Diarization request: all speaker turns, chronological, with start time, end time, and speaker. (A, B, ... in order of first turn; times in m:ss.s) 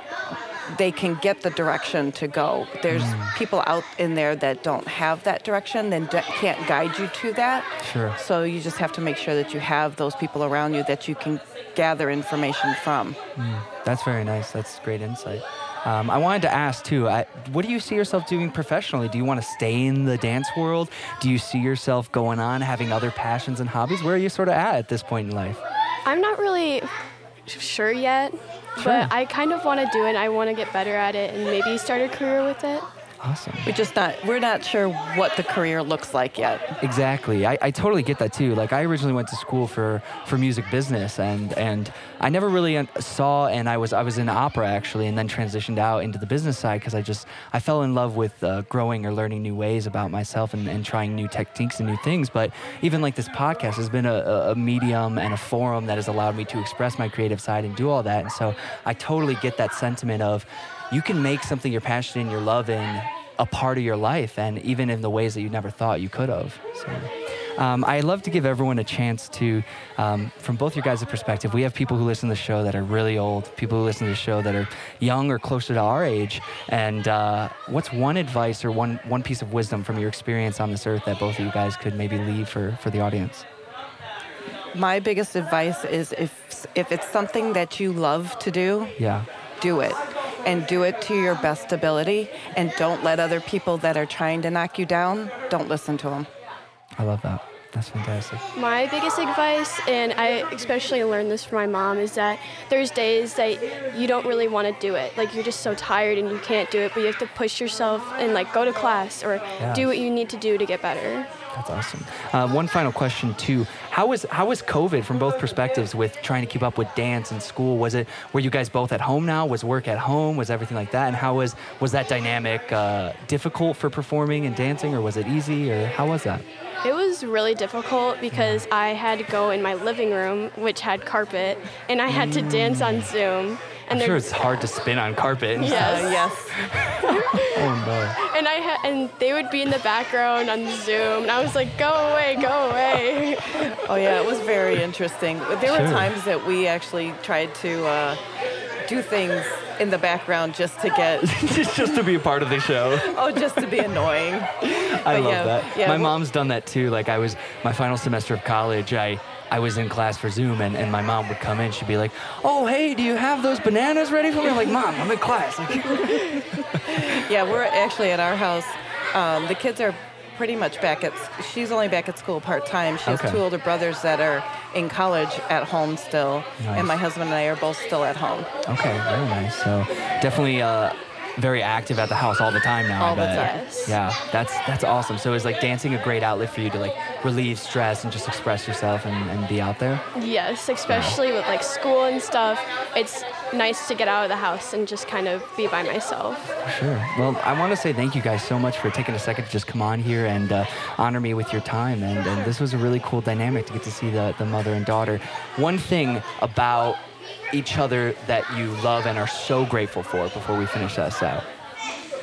0:00.7-0:13.2 A
0:02.9-0:03.3 B
0:07.8-0:08.2 B
0:13.4-0:25.6 B
0:26.0-0:26.9 C
0:27.4-0:32.8 C
0:28.8-0:29.1 B
0:33.2-0:33.7 B
0:33.6-0:36.7 A
0:36.8-1:23.4 B
1:24.7-1:29.0 A
1:29.0-1:29.2 B
1:29.6-1:36.3 A
1:37.0-1:38.4 B
1:38.5-1:51.3 C
1:49.6-1:49.9 B
1:51.5-2:06.4 B
2:06.8-2:14.7 C
2:08.3-2:08.6 B
2:12.1-2:13.1 B
2:13.9-2:18.2 B
2:15.6-2:16.2 C
2:15.6-2:16.6 A
2:17.1-2:17.6 C
2:18.2-2:23.5 C
2:23.7-2:28.2 A
2:25.6-2:26.1 B
2:28.8-2:31.4 A
2:31.2-2:33.2 B
2:33.0-2:36.1 A
2:34.7-2:46.4 B
2:46.9-2:58.5 A
2:53.0-2:53.4 B
2:56.6-2:56.9 B
2:58.7-3:10.0 B
3:03.0-3:03.7 A
3:03.4-3:04.0 C
3:10.1-3:16.5 C
3:10.9-3:11.2 B
3:16.6-3:27.0 B
3:27.5-3:31.4 B